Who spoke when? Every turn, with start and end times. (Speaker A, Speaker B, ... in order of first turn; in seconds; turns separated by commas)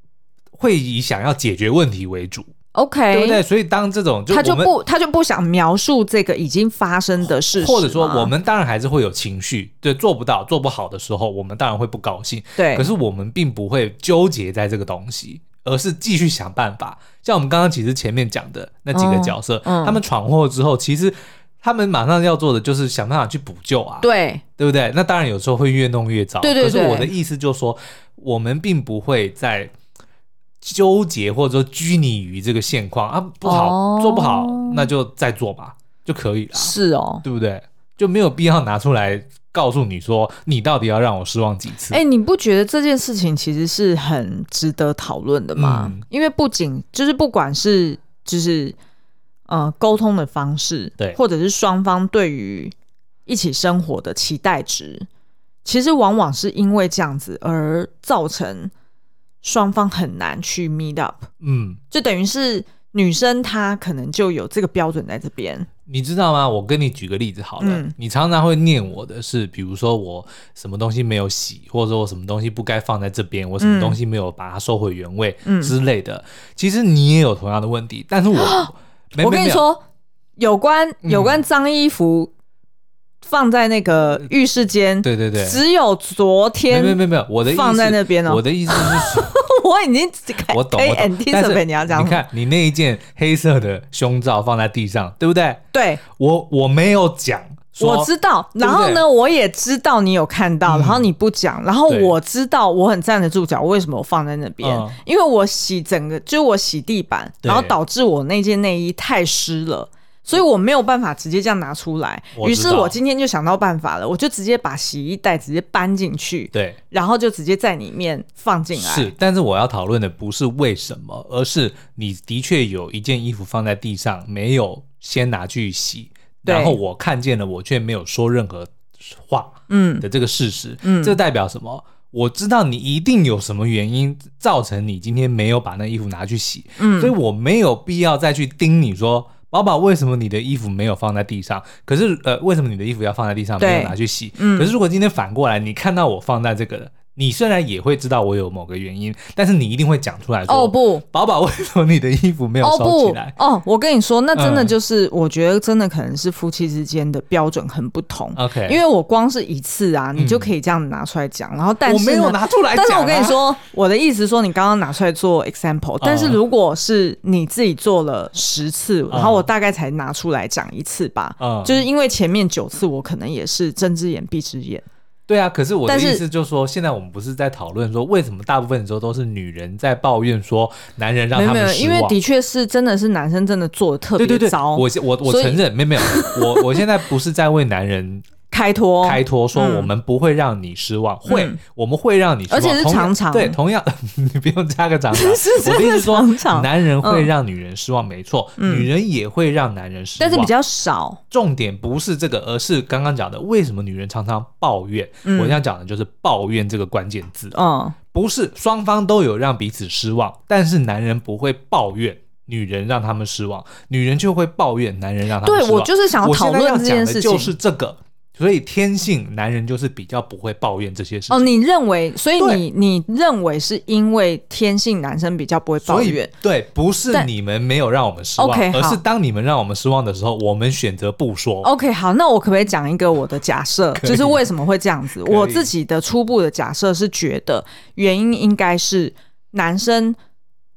Speaker A: 0.6-2.5, Speaker B: 2.8-3.4, Speaker A: 3.1-4.7, Speaker B: 4.3-8.3, Speaker A: 7.5-29.7, Speaker B: 12.6-12.9, Speaker B: 18.9-20.0, Speaker B: 24.0-24.4, Speaker B: 26.4-27.1, Speaker A: 30.6-42.0, Speaker B: 33.5-34.9, Speaker B: 36.6-37.2, Speaker B: 41.9-48.8, Speaker A: 45.6-46.0, Speaker B: 49.5-52.7, Speaker B: 53.3-55.1, Speaker B: 55.6-58.7, Speaker B: 59.4-61.3, Speaker A: 61.4-61.8, Speaker B: 61.9-65.7, Speaker A: 65.9-79.6, Speaker B: 67.6-67.9, Speaker B: 73.6-74.0, Speaker B: 75.5-75.7, Speaker B: 78.3-79.8, Speaker B: 80.4-82.3, Speaker A: 81.0-81.4, Speaker B: 83.2-92.2, Speaker A: 85.0-85.6, Speaker A: 86.7-89.3, Speaker A: 90.5-99.0, Speaker B: 95.7-96.0, Speaker B: 97.8-119.1, Speaker A: 100.7-101.1, Speaker A: 101.9-102.2, Speaker A: 104.6-105.0, Speaker A: 107.4-107.8, Speaker A: 112.3-113.0, Speaker A: 116.5-116.8, Speaker A: 118.8-153.3, Speaker B: 126.5-126.8, Speaker B: 129.7-130.1, Speaker B: 130.8-131.2, Speaker B: 136.8-137.2, Speaker B: 143.6-144.7, Speaker B: 150.5-151.0, Speaker B: 152.6-174.9, Speaker A: 154.4-154.7, Speaker A: 158.3-158.8, Speaker A: 160.2-160.5, Speaker A: 161.9-163.4, Speaker A: 166.0-166.4, Speaker A: 169.1-169.5, Speaker A: 171.4-171.8, Speaker A: 175.3-182.2, Speaker B: 175.9-176.2, Speaker B: 181.3-186.8, Speaker A: 184.2-188.2, Speaker B: 188.5-189.9, Speaker A: 189.0-200.5, Speaker B: 191.3-191.6, Speaker B: 192.5-193.6, Speaker B: 195.1-197.3, Speaker B: 198.6-198.9, Speaker B: 200.2-201.2, Speaker A: 201.3-207.6, Speaker B: 205.2-205.6, Speaker B: 207.5-208.0, Speaker A: 208.1-221.5, Speaker B: 215.4-217.5, Speaker B: 221.3-226.3, Speaker A: 225.8-231.7, Speaker B: 228.4-229.0, Speaker B: 231.6-240.2, Speaker A: 234.0-234.4, Speaker A: 235.2-235.7